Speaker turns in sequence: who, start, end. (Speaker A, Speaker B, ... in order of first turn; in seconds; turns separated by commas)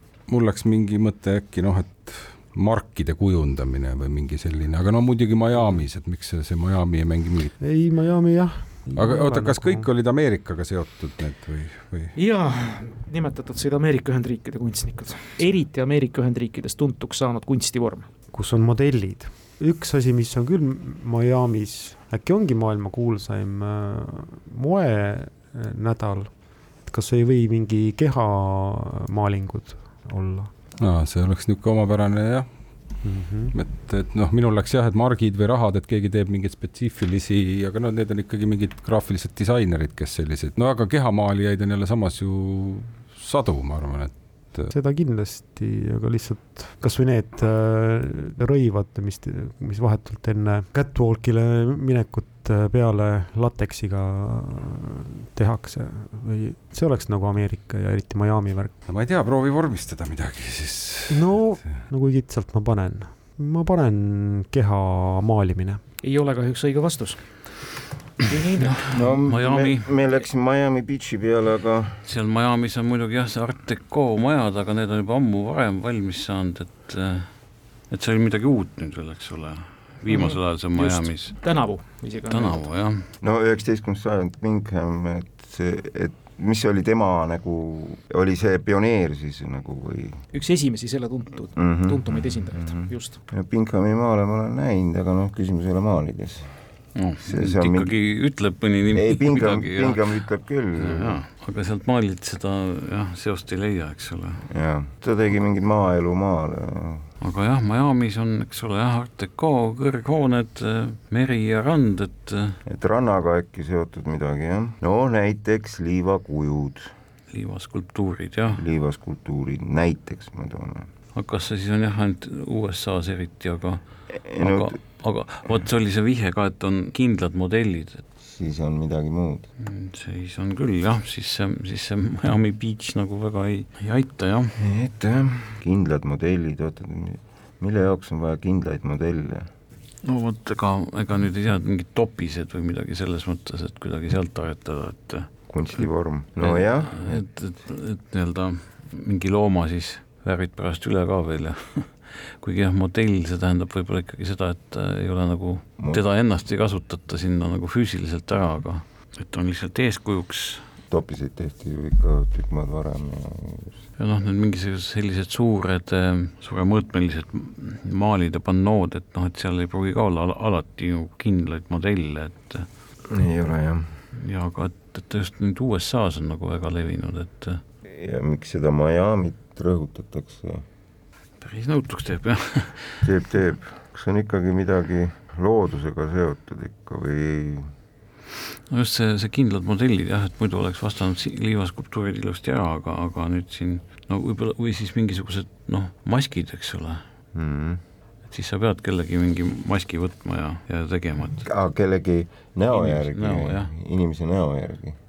Speaker A: 0.3-7.6, Speaker B: 7.6-9.9, Speaker A: 8.9-12.1, Speaker C: 12.2-18.1, Speaker B: 18.3-26.3, Speaker B: 26.9-30.5, Speaker A: 30.8-32.5, Speaker B: 33.0-33.5, Speaker A: 33.5-44.7, Speaker B: 44.7-58.7, Speaker A: 58.9-61.3, Speaker B: 61.1-65.8, Speaker C: 66.0-67.3, Speaker C: 68.2-68.8, Speaker D: 68.9-72.0, Speaker E: 69.0-69.9, Speaker E: 72.1-81.4, Speaker C: 80.1-82.7, Speaker E: 82.3-83.0, Speaker D: 83.2-90.2, Speaker C: 90.3-93.2, Speaker D: 91.6-96.5, Speaker E: 97.0-100.2, Speaker D: 97.2-97.9, Speaker D: 98.9-101.2, Speaker E: 100.8-104.4, Speaker D: 104.5-107.0, Speaker E: 107.2-112.6, Speaker D: 112.7-116.9, Speaker E: 117.3-118.6, Speaker D: 118.6-120.9, Speaker E: 121.1-128.0, Speaker D: 124.1-124.8, Speaker D: 128.2-129.5, Speaker E: 129.6-134.6, Speaker D: 134.6-139.5, Speaker E: 140.0-145.9, Speaker D: 145.5-147.2, Speaker E: 146.4-160.6, Speaker D: 160.9-163.8, Speaker E: 164.0-172.7, Speaker D: 173.1-173.9, Speaker E: 174.2-177.6, Speaker D: 177.9-180.6, Speaker E: 181.4-183.0, Speaker D: 183.0-187.7, Speaker E: 188.7-197.0, Speaker D: 197.3-197.8, Speaker E: 198.3-201.4, Speaker D: 201.4-205.0, Speaker E: 202.7-203.7